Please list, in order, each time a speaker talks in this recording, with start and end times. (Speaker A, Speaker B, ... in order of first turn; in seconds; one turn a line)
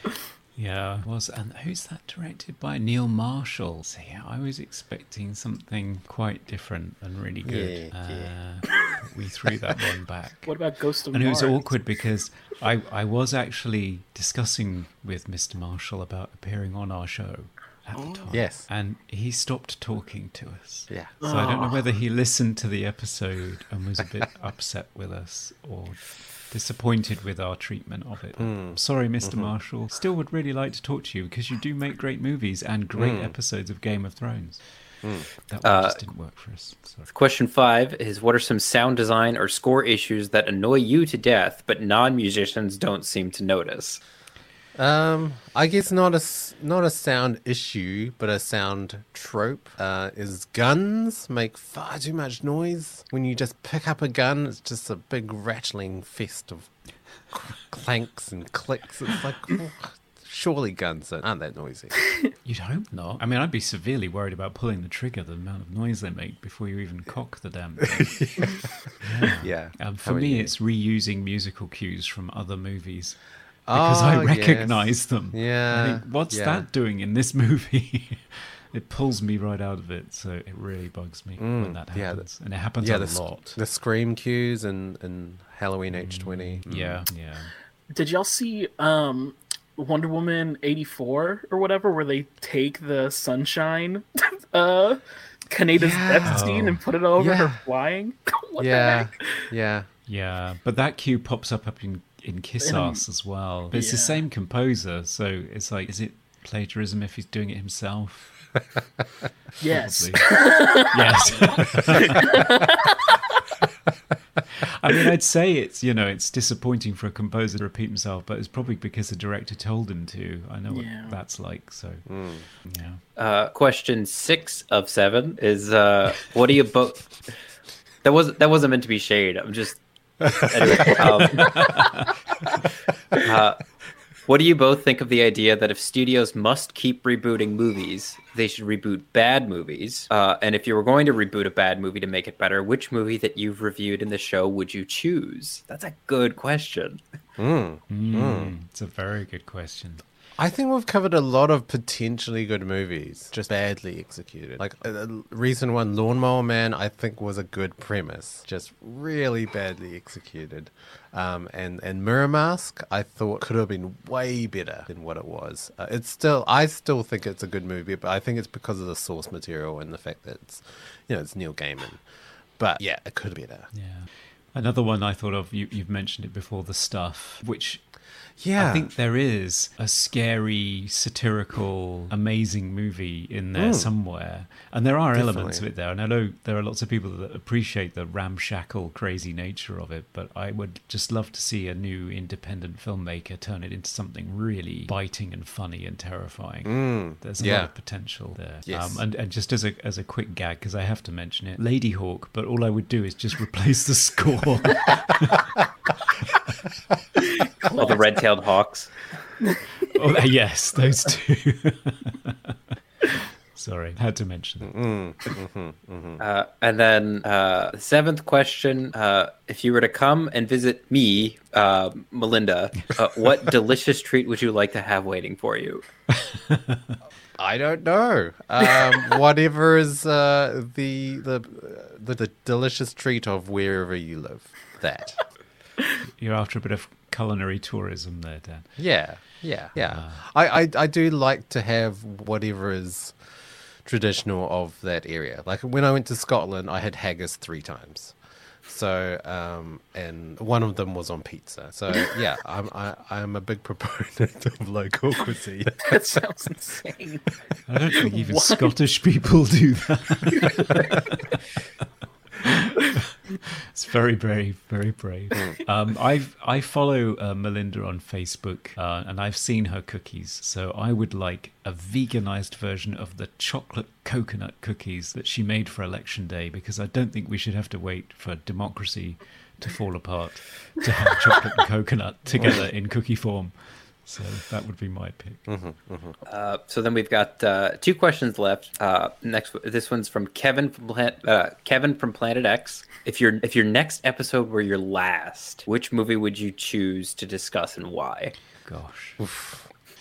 Speaker A: 0.6-10.5
Speaker B: 7.4-8.3
Speaker C: 10.4-11.8
Speaker A: 11.1-34.6
Speaker B: 18.3-18.6
Speaker C: 21.2-21.8
Speaker B: 28.4-29.5
Speaker B: 33.0-33.3
Speaker A: 35.5-37.1
Speaker D: 35.6-36.0
Speaker D: 37.1-44.0
Speaker B: 44.8-56.7
Speaker B: 57.3-62.0
Speaker A: 62.4-68.4
Speaker B: 68.0-68.7
Speaker A: 69.0-73.2
Speaker B: 69.4-70.5
Speaker B: 73.7-76.6
Speaker A: 73.7-83.6
Speaker B: 81.4-82.3
Speaker B: 82.8-87.0
Speaker A: 85.9-87.5
Speaker C: 87.9-99.5
Speaker B: 95.7-96.5
Speaker A: 96.2-96.8
Speaker B: 97.2-97.6
Speaker B: 98.6-99.9
Speaker A: 100.1-108.4
Speaker C: 102.6-103.0
Speaker C: 103.7-104.2
Speaker C: 109.6-113.4
Speaker A: 109.6-112.4
Speaker A: 114.5-122.0
Speaker C: 120.7-121.1
Speaker B: 122.1-122.4
Speaker A: 122.6-123.0
Speaker D: 123.2-127.2
Speaker D: 128.0-131.9
Speaker B: 130.3-131.0
Speaker A: 131.3-132.1
Speaker D: 133.2-133.6
Speaker D: 134.2-147.0
Speaker B: 147.4-148.5
Speaker A: 147.9-150.0
Speaker B: 150.4-172.0
Speaker B: 172.6-173.7
Speaker A: 173.7-177.9
Speaker B: 178.4-178.9
Speaker A: 178.6-205.5
Speaker B: 183.6-183.9
Speaker B: 185.1-185.6
Speaker B: 196.6-197.7
Speaker B: 198.7-199.0
Speaker C: 207.4-208.0
Speaker D: 207.7-209.1
Speaker A: 209.9-212.5
Speaker A: 213.1-214.7
Speaker B: 214.6-216.2
Speaker D: 216.2-225.8
Speaker A: 226.1-227.0
Speaker B: 227.4-235.2
Speaker A: 236.2-238.7
Speaker B: 238.8-243.2
Speaker A: 239.8-240.2
Speaker B: 243.8-256.0
Speaker C: 255.8-257.4
Speaker A: 257.7-261.2
Speaker C: 258.0-258.7
Speaker C: 260.3-260.9
Speaker A: 262.4-263.0
Speaker A: 263.7-285.4
Speaker B: 285.5-286.2
Speaker D: 286.3-298.4
Speaker A: 298.6-299.2
Speaker B: 299.2-299.7